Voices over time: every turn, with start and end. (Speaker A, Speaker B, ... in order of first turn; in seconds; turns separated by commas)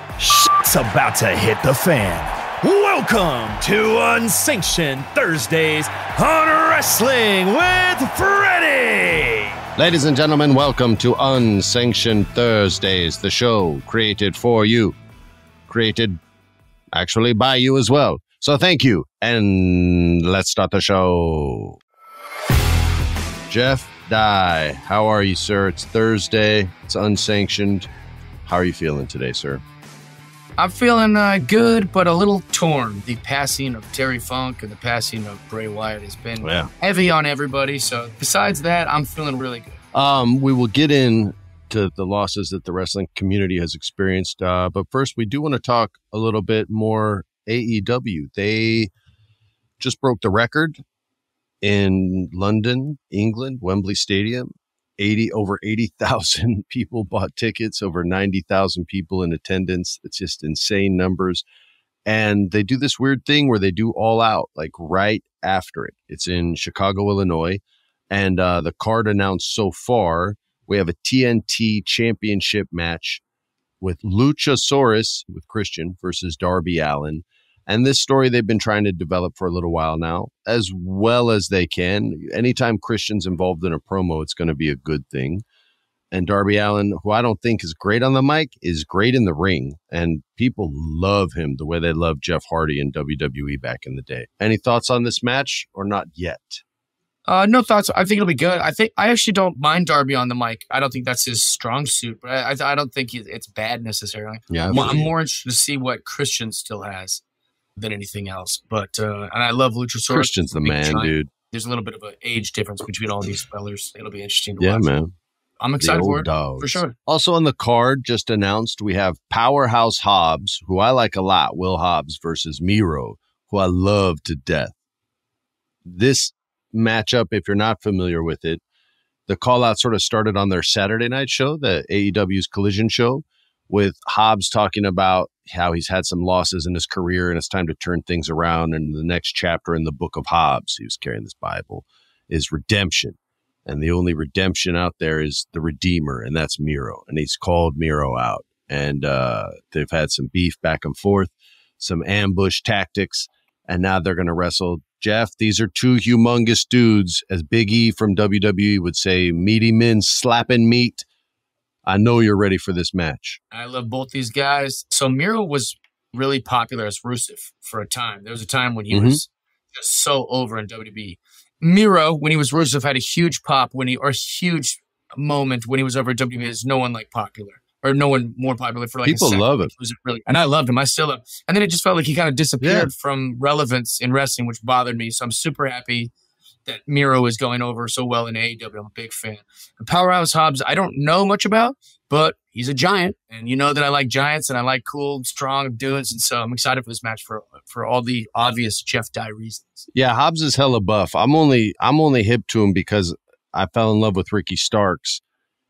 Speaker A: 0.2-9.5, Speaker B: 9.8-14.9, Speaker B: 15.7-16.2, Speaker B: 16.9-21.8, Speaker B: 23.5-27.9, Speaker B: 28.4-29.6, Speaker C: 30.6-39.8, Speaker B: 36.4-36.7, Speaker B: 39.9-48.9, Speaker B: 49.8-50.8, Speaker B: 51.6-61.4, Speaker B: 62.0-73.2, Speaker B: 73.8-85.4, Speaker B: 86.1-96.6, Speaker C: 97.2-107.2, Speaker B: 104.5-105.1, Speaker C: 107.8-114.9, Speaker B: 110.1-111.3, Speaker B: 114.6-115.1, Speaker C: 115.6-116.9, Speaker B: 115.8-124.7, Speaker B: 125.8-128.6, Speaker B: 129.3-161.0, Speaker B: 161.8-163.4, Speaker C: 163.5-186.1, Speaker B: 168.9-169.2, Speaker B: 179.1-179.7, Speaker B: 182.6-182.9, Speaker C: 186.6-199.9, Speaker B: 199.9-205.2